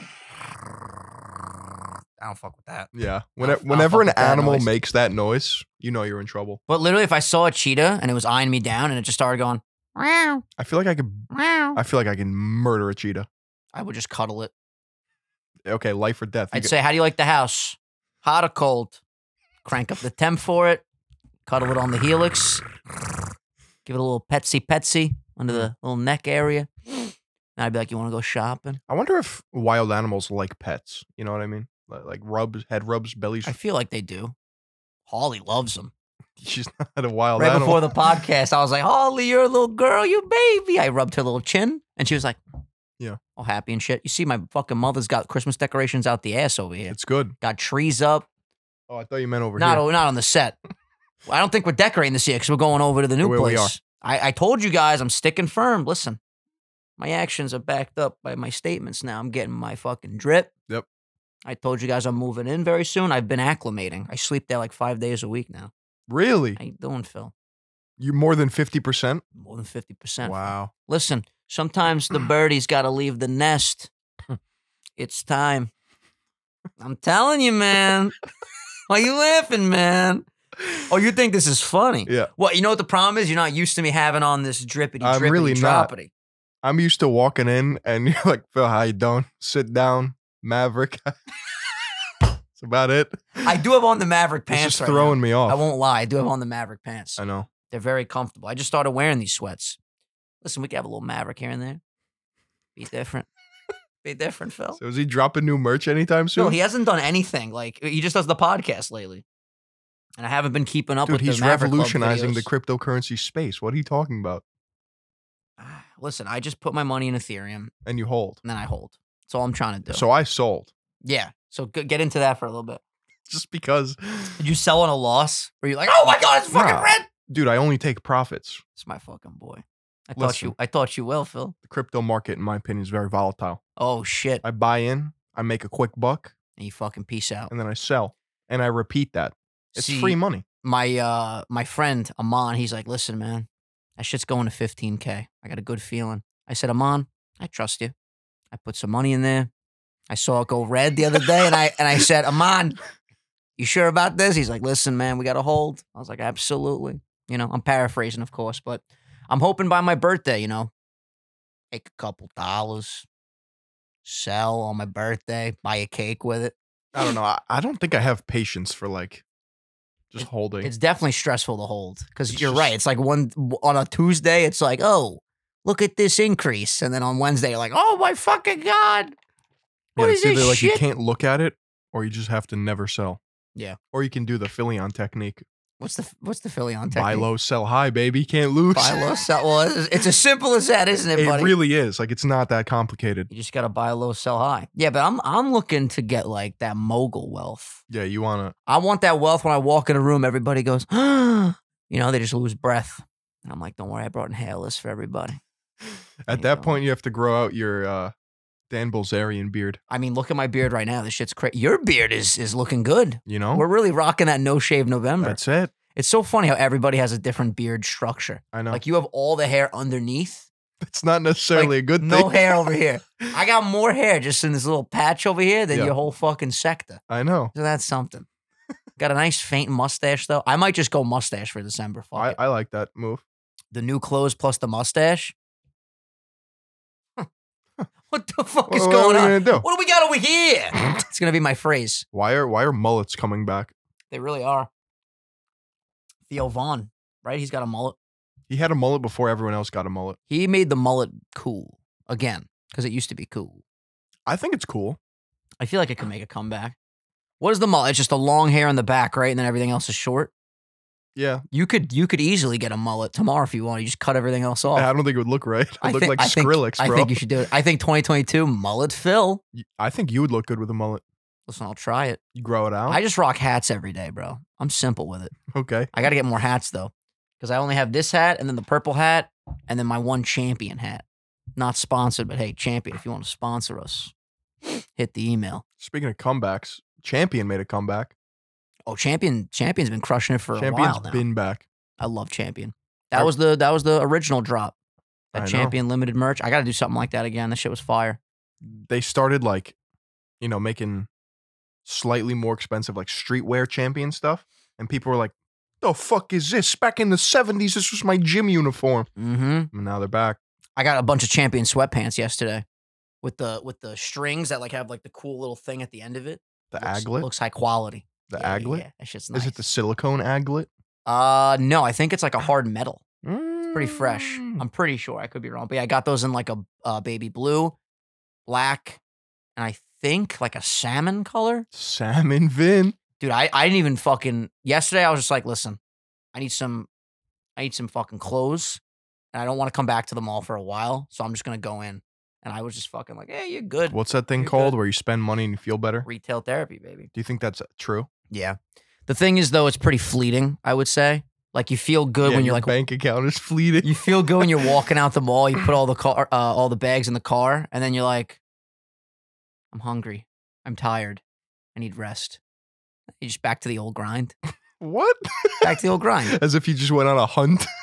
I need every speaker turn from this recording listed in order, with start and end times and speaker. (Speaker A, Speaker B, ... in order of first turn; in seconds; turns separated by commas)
Speaker A: 2.2-4.7, Speaker B: 2.9-6.6, Speaker A: 6.7-10.4, Speaker B: 10.6-13.3, Speaker A: 11.3-11.8, Speaker A: 13.7-14.5, Speaker B: 15.7-16.7, Speaker A: 16.5-19.0, Speaker A: 19.6-20.8, Speaker A: 21.5-22.6, Speaker A: 23.9-28.8, Speaker B: 28.9-33.5, Speaker A: 33.5-34.4, Speaker A: 35.1-35.9, Speaker B: 36.4-37.9, Speaker A: 37.4-42.4, Speaker A: 43.4-48.2, Speaker B: 46.9-47.4, Speaker B: 48.9-49.8, Speaker A: 49.6-50.5, Speaker A: 51.3-56.2, Speaker B: 53.2-53.7, Speaker A: 57.0-60.5, Speaker A: 61.5-65.7, Speaker B: 66.1-66.6, Speaker A: 66.6-67.3, Speaker B: 68.0-69.2, Speaker A: 69.4-73.9, Speaker B: 70.2-70.7, Speaker A: 75.0-75.7, Speaker A: 76.8-78.2, Speaker A: 78.9-80.3, Speaker A: 80.8-86.1, Speaker B: 85.0-85.9, Speaker B: 86.6-91.2, Speaker B: 92.5-93.5, Speaker A: 93.4-99.8, Speaker B: 94.5-95.6, Speaker B: 97.2-97.5, Speaker A: 100.4-101.8, Speaker A: 102.8-103.3, Speaker A: 104.0-104.8, Speaker B: 104.8-106.6, Speaker A: 106.4-109.2, Speaker A: 110.2-112.5, Speaker B: 111.0-114.4, Speaker A: 115.6-117.7, Speaker B: 117.9-118.4, Speaker A: 118.4-120.0, Speaker B: 119.9-120.7, Speaker A: 121.0-122.8, Speaker B: 123.3-124.4, Speaker A: 124.4-127.1, Speaker B: 126.5-128.6, Speaker A: 128.8-131.5, Speaker B: 130.2-130.5, Speaker B: 131.6-133.6, Speaker A: 133.8-134.4, Speaker B: 134.4-136.3, Speaker A: 136.6-137.5, Speaker B: 137.5-140.4, Speaker A: 139.8-147.9, Speaker A: 148.5-149.5, Speaker A: 150.1-152.8, Speaker A: 153.6-160.7, Speaker A: 161.7-163.1, Speaker A: 164.0-166.5, Speaker B: 166.9-169.2, Speaker B: 170.1-170.7, Speaker A: 170.2-179.1, Speaker B: 172.3-172.7, Speaker A: 180.0-180.8, Speaker B: 180.0-183.2, Speaker B: 183.9-185.4, Speaker A: 185.8-187.3, Speaker B: 186.9-189.0, Speaker A: 188.7-191.5, Speaker B: 191.2-193.3, Speaker A: 193.3-197.8, Speaker B: 197.9-198.5, Speaker A: 198.7-205.4, Speaker B: 205.9-208.1, Speaker A: 206.3-206.8, Speaker B: 208.7-209.8, Speaker A: 209.9-215.4, Speaker B: 213.3-213.6, Speaker B: 215.2-215.7, Speaker A: 215.9-220.5, Speaker B: 218.5-218.8, Speaker B: 220.8-222.8, Speaker A: 221.5-227.0, Speaker B: 227.1-227.5, Speaker A: 227.5-228.2, Speaker A: 229.0-232.4, Speaker B: 232.2-233.2, Speaker A: 233.7-235.3, Speaker A: 238.1-242.0, Speaker B: 238.7-239.6, Speaker B: 242.1-243.7, Speaker A: 244.1-244.7, Speaker A: 246.3-248.0, Speaker B: 248.5-250.2, Speaker A: 250.3-253.6, Speaker B: 254.2-255.0, Speaker A: 255.6-256.8, Speaker A: 257.4-260.3, Speaker B: 261.1-261.4, Speaker A: 261.5-264.9, Speaker B: 264.7-267.2, Speaker A: 265.8-269.4, Speaker B: 269.6-271.0, Speaker A: 271.5-272.2, Speaker B: 272.4-273.0, Speaker A: 272.9-275.3, Speaker B: 275.5-275.9, Speaker A: 275.9-281.0, Speaker A: 281.6-284.1, Speaker A: 284.6-285.6, Speaker B: 285.8-288.1, Speaker A: 288.9-291.2, Speaker B: 290.5-291.6, Speaker A: 292.0-294.8, Speaker A: 295.3-298.2, Speaker B: 295.4-295.8, Speaker B: 298.6-299.8, Speaker B: 300.4-301.1, Speaker B: 301.9-309.1, Speaker A: 309.2-309.7, Speaker B: 309.7-310.4, Speaker A: 310.8-312.6, Speaker A: 313.2-319.6, Speaker B: 316.7-317.3, Speaker B: 318.3-320.7, Speaker A: 321.1-323.0, Speaker B: 323.2-324.6, Speaker A: 323.7-327.8, Speaker A: 328.5-329.0, Speaker A: 329.6-331.6, Speaker B: 331.7-333.0, Speaker A: 333.2-335.8, Speaker A: 336.3-336.9, Speaker A: 337.6-338.8, Speaker A: 339.3-344.8, Speaker B: 343.9-346.1, Speaker A: 346.1-347.1, Speaker B: 347.1-348.1, Speaker A: 348.3-352.7, Speaker B: 352.2-354.7, Speaker A: 353.8-358.4, Speaker A: 359.7-361.2, Speaker A: 361.7-362.4, Speaker A: 363.2-364.4, Speaker B: 364.8-365.7, Speaker A: 365.6-366.4, Speaker B: 366.3-367.7